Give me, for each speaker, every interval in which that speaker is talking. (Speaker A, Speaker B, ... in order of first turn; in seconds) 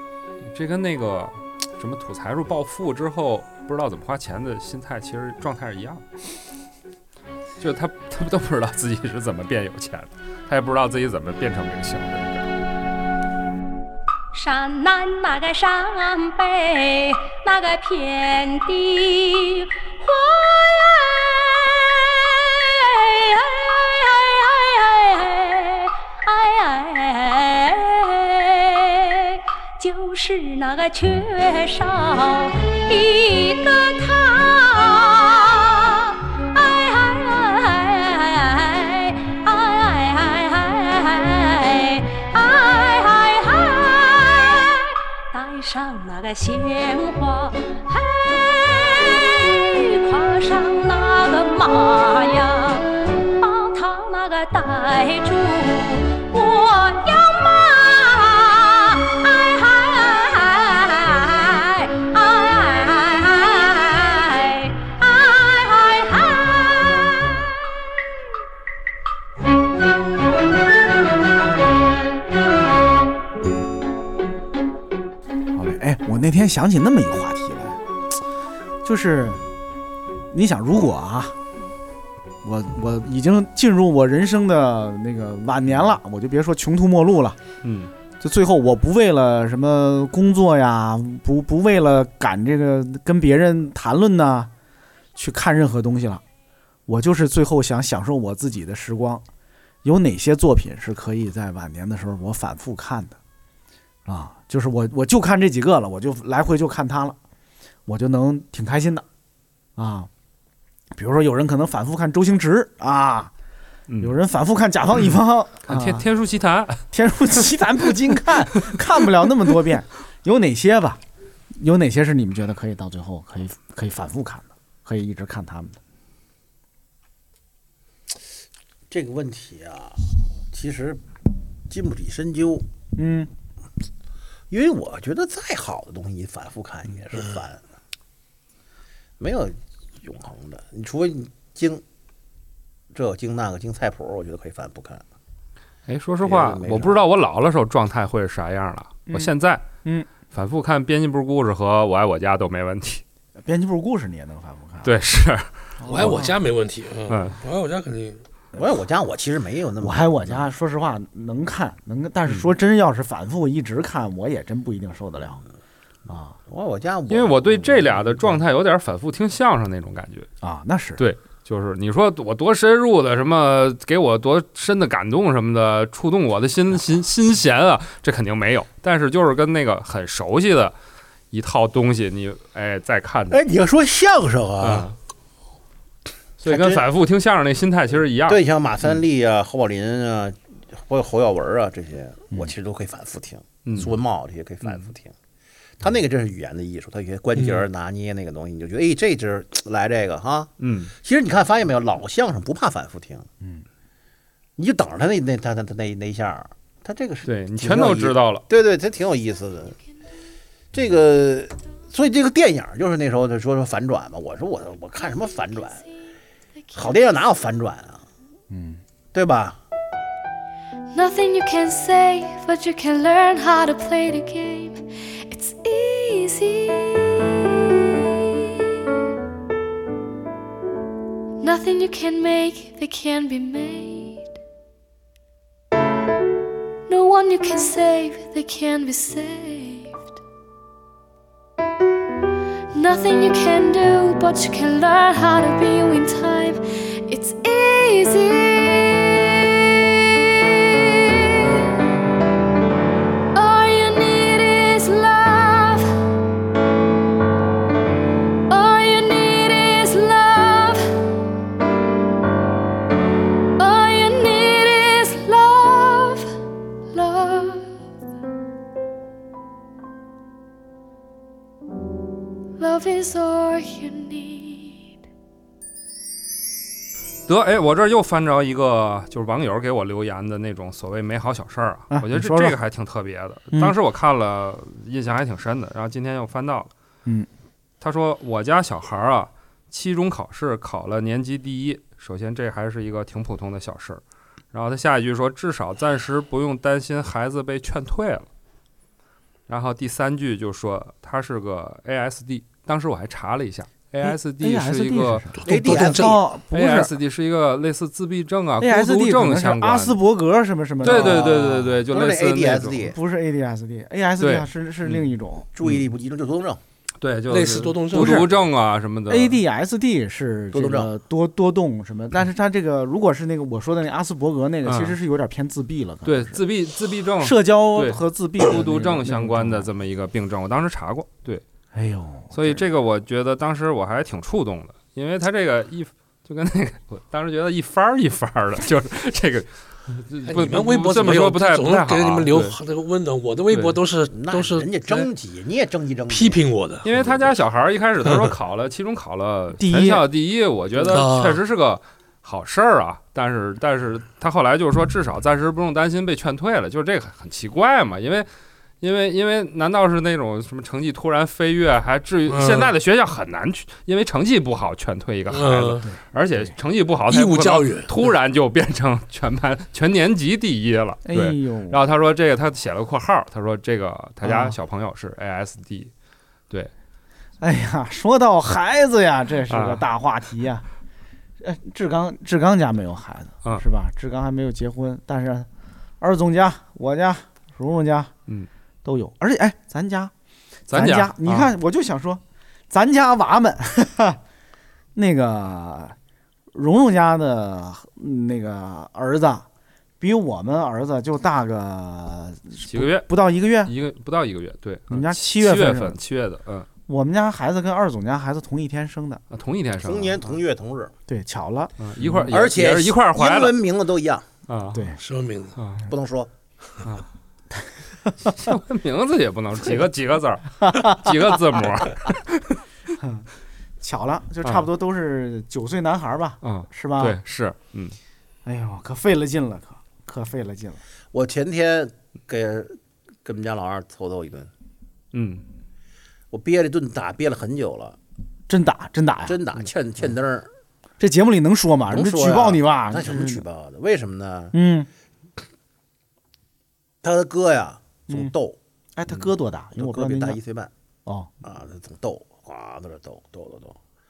Speaker A: 0.5-6.0, 7.6-12.5, 87.6-87.9, 113.9-114.2, 115.7-116.8, 145.9-149.7, 150.3-153.0, 154.8-155.6, 157.1-157.4, 167.1-170.3, 171.0-180.8, 181.3-183.4, 184.6-184.9, 186.4-188.4, 193.7-193.9, 200.6-200.9, 207.2-208.4, 277.3-286.7, 287.8-294.0, 294.5-298.3, 299.5-305.3, 306.5-310.0, 310.8-312.8, 314.2-315.0, 317.0-319.4, 324.6-325.0, 326.1-331.4, 332.3-342.6, 343.5-343.8, 346.8-358.3, 358.8-375.9, 379.5-379.8, 390.7-391.5, 402.6-403.1, 403.6-406.7, 409.3-410.3, 411.8-413.6, 414.5-414.9, 415.6-415.9, 418.3-422.6, 426.4-428.0, 435.1-435.4
Speaker B: 14.3-67.2
Speaker C: 75.5-77.8, 78.8-79.4, 80.3-81.4, 82.4-87.4, 88.2-94.5, 95.2-96.2, 96.9-99.2, 99.8-103.2, 104.1-107.2, 107.9-109.1, 109.8-110.1, 110.9-113.3, 114.0-116.1, 116.9-121.0, 121.5-125.8, 132.9-133.3, 149.1-149.3, 153.4-154.9, 155.8-156.3, 159.8-165.4, 166.1-166.4, 170.4-171.0, 218.5-218.8, 281.9-282.6, 304.0-306.9, 308.6-311.8, 312.9-315.5, 317.9-318.3, 319.1-326.4, 327.2-329.7, 331.7-332.7, 349.6-350.0, 371.1-371.8, 374.2-374.6, 377.4-380.7, 381.4-385.5, 386.0-388.1, 388.8-390.1, 390.7-394.2, 394.9-396.0, 396.5-399.5, 400.0-403.7, 404.9-406.0, 406.9-409.2, 411.1-412.3, 414.7-415.0, 420.6-421.3, 423.0-423.3, 423.8-427.2, 428.4-430.8, 438.5-439.4, 441.0-443.4, 444.5-444.9, 448.1-448.3, 449.0-450.4, 451.1-451.3
Speaker D: 128.9-131.0, 131.7-132.7, 134.5-137.6, 139.2-141.8, 142.9-145.0, 146.2-147.0, 158.6-160.4, 166.5-168.4, 183.3-184.9, 186.4-186.8, 188.3-195.1, 195.8-203.3, 204.6-209.8, 210.7-215.8, 216.8-218.1, 219.1-219.6, 305.5-306.2, 310.9-313.0, 315.6-316.6, 320.5-320.9, 344.1-347.0, 409.8-410.9, 412.3-414.3, 415.9-416.3, 431.1-434.5, 436.3-438.0, 439.3-440.5, 441.9-444.5, 447.0-448.6, 449.8-450.7, 451.4-453.8
Speaker E: 155.9-158.2, 305.5-306.2, 317.3-318.4, 340.2-345.1, 346.1-346.9, 350.9-351.4, 362.3-362.7, 365.3-365.9, 367.1-368.1, 415.0-415.6
Speaker F: 220.9-228.4, 231.4-234.3, 236.9-240.1, 242.7-251.7, 253.3-255.9, 258.5-260.9, 263.6-266.3, 266.9-267.7, 272.6-274.9